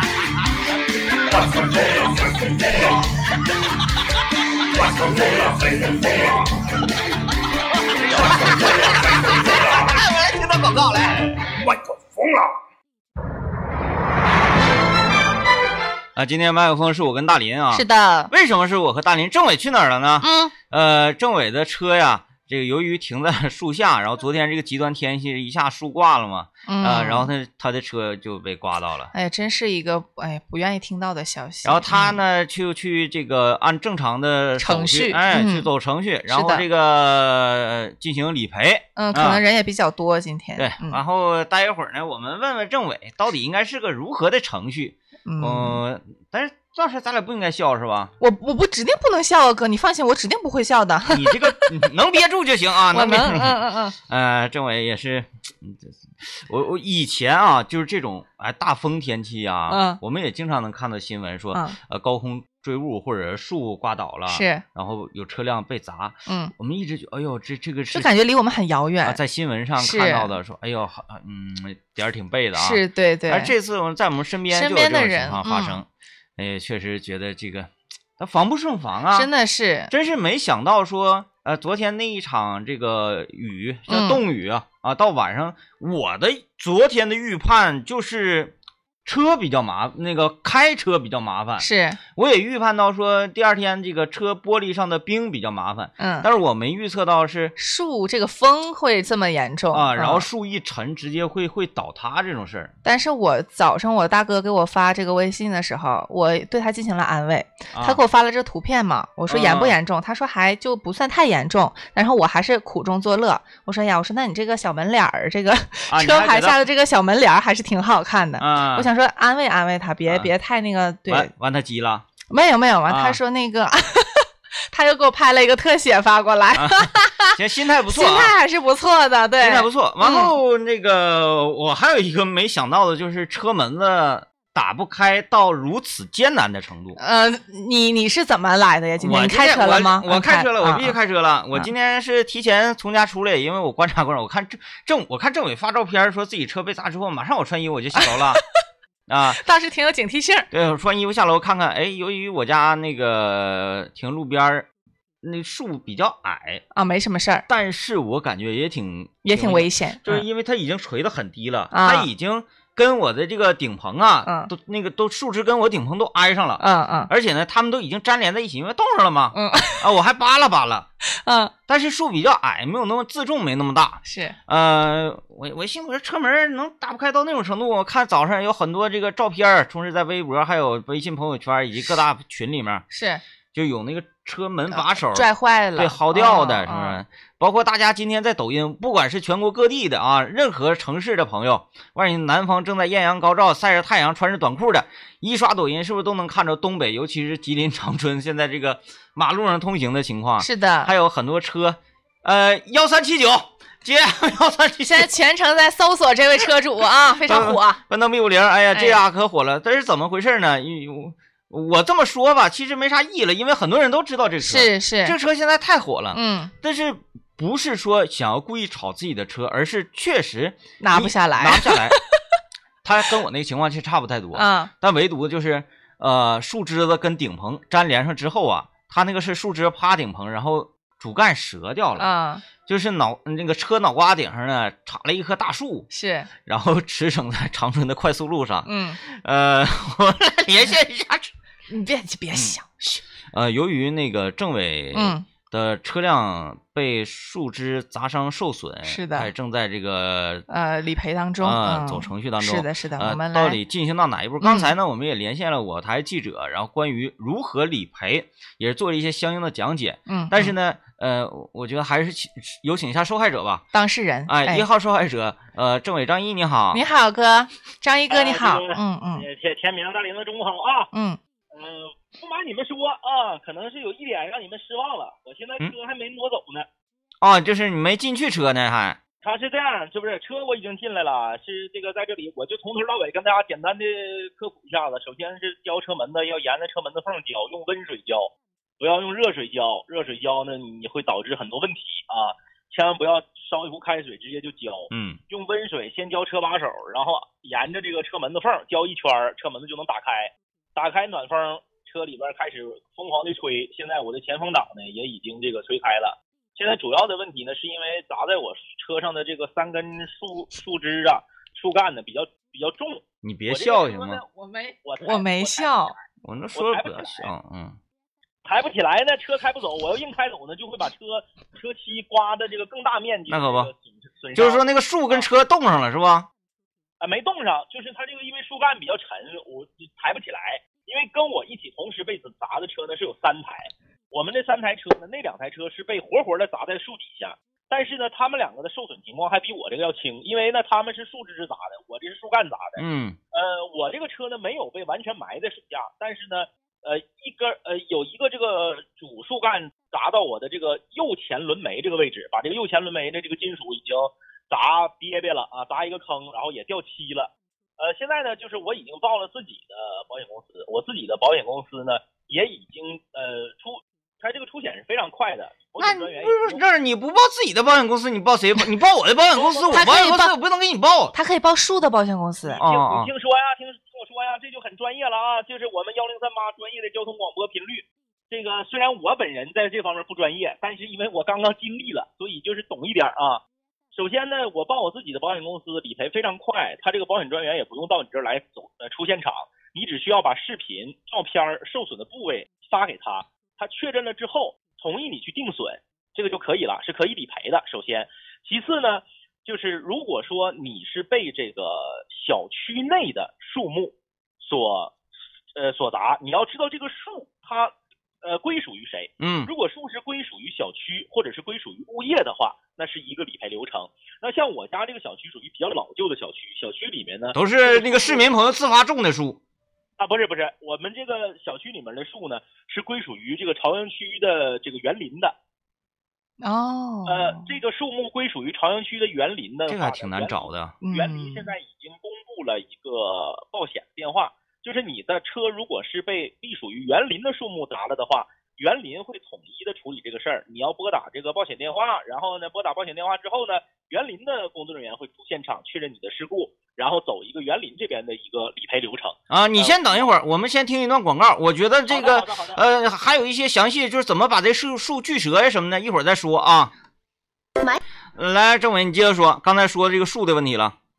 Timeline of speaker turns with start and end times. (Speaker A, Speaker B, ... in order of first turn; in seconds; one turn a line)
Speaker A: 1.3-2.9
Speaker A: 4.7-6.3
Speaker B: 8.1-11.5
Speaker A: 8.2-9.8
Speaker A: 11.5-12.5
Speaker B: 16.1-29.1
Speaker C: 17.7-18.3
Speaker C: 20.2-20.5
Speaker C: 26.7-27.3
Speaker C: 29.1-32.2
Speaker B: 31.6-39.4
Speaker C: 34.6-35.7
Speaker C: 36.3-36.7
Speaker C: 39.0-41.0
Speaker B: 40.6-48.1
Speaker C: 45.3-45.8
Speaker C: 48.2-51.7
Speaker B: 51.1-68.1
Speaker C: 52.9-54.0
Speaker C: 59.7-60.0
Speaker C: 64.3-64.7
Speaker C: 66.3-66.5
Speaker C: 67.9-69.2
Speaker B: 69.0-79.3
Speaker C: 69.8-70.3
Speaker C: 72.6-73.5
Speaker C: 74.5-75.8
Speaker C: 79.1-79.9
Speaker B: 79.9-97.6
Speaker C: 83.9-84.2
Speaker C: 91.6-92.0
Speaker C: 96.0-96.3
Speaker C: 97.6-100.3
Speaker B: 99.7-102.7
Speaker C: 102.8-121.3
Speaker B: 107.7-108.0
Speaker B: 109.3-109.8
Speaker B: 115.9-116.6
Speaker B: 118.4-118.9
Speaker B: 120.1-120.3
Speaker B: 121.1-122.1
Speaker C: 122.3-127.4
Speaker B: 122.9-123.2
Speaker B: 126.5-128.3
Speaker C: 127.9-130.3
Speaker B: 129.4-137.0
Speaker C: 137.0-140.9
Speaker B: 139.0-148.4
Speaker C: 148.0-148.4
Speaker B: 149.1-149.4
Speaker C: 149.3-150.5
Speaker B: 150.5-154.7
Speaker B: 155.2-156.6
Speaker C: 156.7-157.5
Speaker B: 157.5-170.9
Speaker C: 159.2-160.2
Speaker C: 161.7-162.1
Speaker C: 164.2-164.5
Speaker C: 166.6-167.1
Speaker C: 169.3-169.9
Speaker C: 171.1-171.5
Speaker B: 171.7-182.8
Speaker C: 174.1-174.4
Speaker C: 182.9-183.2
Speaker B: 183.5-205.1
Speaker C: 184.7-187.0
Speaker C: 200.4-200.9
Speaker C: 204.8-207.8
Speaker B: 207.2-222.0
Speaker C: 208.7-209.0
Speaker C: 214.4-215.2
Speaker C: 216.1-216.5
Speaker C: 220.8-222.0
Speaker B: 222.8-235.9
Speaker C: 224.3-224.7
Speaker C: 232.0-232.4
Speaker C: 235.9-236.3
Speaker B: 236.4-241.3
Speaker C: 238.7-239.0
Speaker C: 241.7-243.0
Speaker B: 242.3-242.7
Speaker B: 243.2-250.4
Speaker C: 244.9-245.3
Speaker C: 248.8-249.3
Speaker C: 250.5-253.6
Speaker B: 251.4-263.6
Speaker C: 254.4-254.7
Speaker C: 260.1-260.5
Speaker C: 263.7-264.6
Speaker B: 264.3-266.8
Speaker C: 266.7-269.2
Speaker D: 268.1-270.9
Speaker C: 270.9-271.2
Speaker D: 271.5-276.7
Speaker B: 277.2-279.0
Speaker D: 279.2-317.3
Speaker B: 294.9-295.2
Speaker B: 313.2-314.2
Speaker C: 315.0-315.9
Speaker B: 316.2-317.8
Speaker D: 318.4-325.3
Speaker B: 323.3-323.7
Speaker B: 324.3-326.3
Speaker D: 327.0-366.6
Speaker B: 342.8-343.2
Speaker B: 365.8-371.1
Speaker D: 369.3-369.9
Speaker C: 369.7-370.3
Speaker C: 371.1-372.6
Speaker D: 372.4-405.0
Speaker B: 372.6-373.1
Speaker D: 405.6-418.3
Speaker B: 409.2-409.5
Speaker B: 417.3-419.4
Speaker D: 420.0-425.4
Speaker C: 426.4-427.5
Speaker D: 427.1-450.1
Speaker B: 429.7-430.8
Speaker C: 430.8-431.5
Speaker B: 449.3-456.7
Speaker D: 451.9-452.6
Speaker B: 458.1-460.8